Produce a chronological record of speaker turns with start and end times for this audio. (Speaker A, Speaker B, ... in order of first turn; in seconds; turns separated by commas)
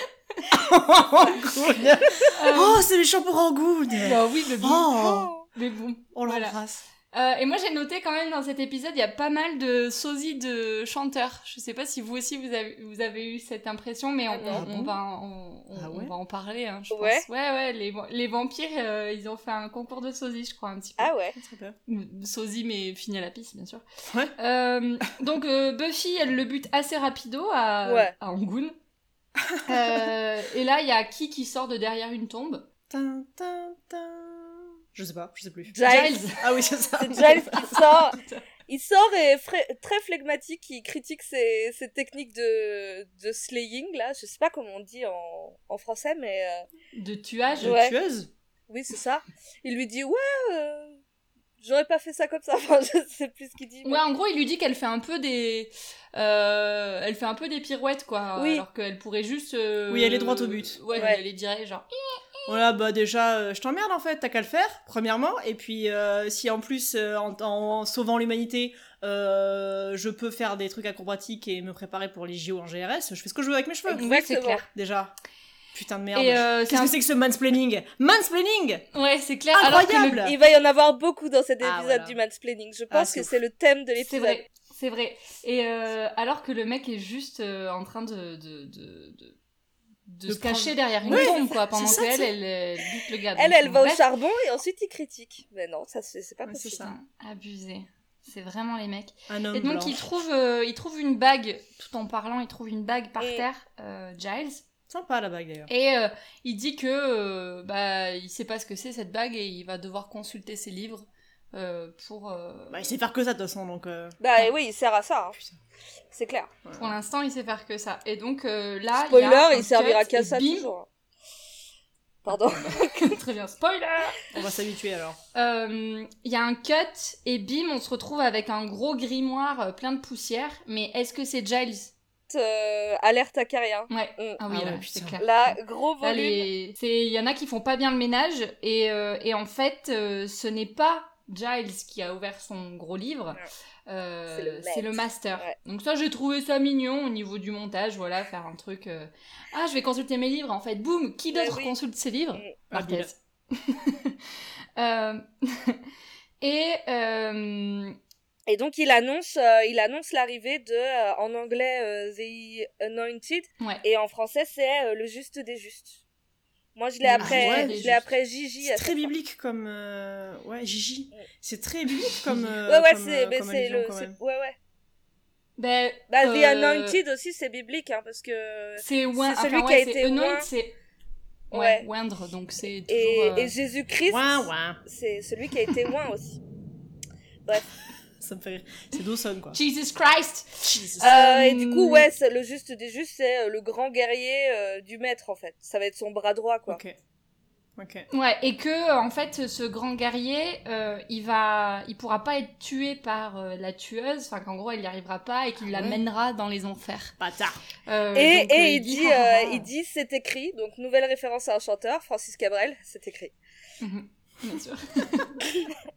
Speaker A: 0.5-5.3, Speaker B: 2.3-2.8, Speaker B: 4.0-6.6, Speaker A: 6.1-6.8, Speaker B: 7.1-21.1, Speaker C: 14.3-14.6, Speaker A: 14.5-15.0, Speaker A: 15.7-16.1, Speaker C: 16.9-17.2, Speaker C: 21.0-21.4, Speaker A: 21.4-21.8, Speaker B: 21.9-23.8, Speaker A: 24.1-24.3, Speaker B: 24.4-28.7, Speaker C: 27.8-28.1, Speaker A: 29.4-30.1, Speaker B: 29.6-32.7, Speaker A: 32.9-38.0, Speaker C: 35.7-36.3, Speaker B: 35.8-36.4, Speaker C: 37.0-46.6, Speaker B: 37.5-38.4, Speaker B: 46.9-47.8, Speaker A: 47.6-48.3, Speaker C: 47.6-47.9, Speaker C: 48.7-51.0, Speaker C: 51.6-54.0, Speaker B: 53.8-62.6, Speaker C: 58.4-58.6, Speaker A: 59.9-61.1, Speaker C: 61.0-61.2, Speaker A: 62.5-74.1, Speaker C: 73.9-74.6, Speaker B: 73.9-74.7, Speaker A: 74.7-75.1, Speaker A: 75.7-78.8, Speaker B: 76.1-77.0, Speaker B: 78.9-80.3, Speaker A: 79.5-80.3, Speaker C: 80.2-84.4, Speaker A: 81.6-82.2, Speaker A: 82.9-83.3, Speaker B: 84.0-89.3, Speaker B: 90.1-94.0, Speaker A: 90.3-92.3, Speaker C: 91.0-91.4, Speaker C: 93.3-96.9, Speaker A: 96.5-96.9, Speaker B: 96.8-104.6, Speaker A: 99.3-100.0, Speaker C: 103.2-103.5, Speaker A: 104.9-105.7, Speaker B: 105.7-112.8, Speaker A: 112.7-114.2, Speaker C: 114.2-115.4, Speaker C: 116.1-116.5, Speaker A: 116.6-116.9, Speaker B: 116.8-120.7, Speaker C: 119.0-120.9, Speaker C: 122.2-123.0, Speaker B: 122.5-124.4, Speaker A: 124.3-125.2, Speaker B: 125.3-131.9, Speaker C: 132.3-134.4, Speaker B: 133.9-135.3, Speaker A: 134.5-135.2, Speaker C: 135.2-136.5, Speaker B: 136.0-155.8, Speaker C: 144.3-145.5, Speaker C: 151.3-151.7, Speaker A: 152.7-153.1, Speaker B: 156.4-157.9, Speaker C: 158.5-166.0, Speaker C: 166.8-169.1, Speaker B: 167.0-168.1, Speaker A: 167.2-167.9, Speaker A: 168.6-174.2, Speaker B: 172.2-172.6, Speaker C: 172.7-174.6, Speaker B: 175.6-177.0, Speaker C: 176.1-180.5, Speaker B: 178.8-180.7, Speaker C: 181.5-181.8, Speaker B: 181.5-183.5, Speaker C: 182.9-186.4, Speaker A: 184.1-184.8, Speaker A: 188.2-189.6, Speaker B: 189.5-192.1, Speaker A: 190.6-191.1, Speaker C: 191.0-196.8, Speaker A: 196.7-196.9, Speaker A: 197.8-198.1, Speaker B: 198.1-207.1, Speaker A: 205.6-206.0, Speaker A: 207.2-207.6, Speaker B: 207.8-209.7, Speaker C: 208.1-213.3, Speaker B: 213.8-215.4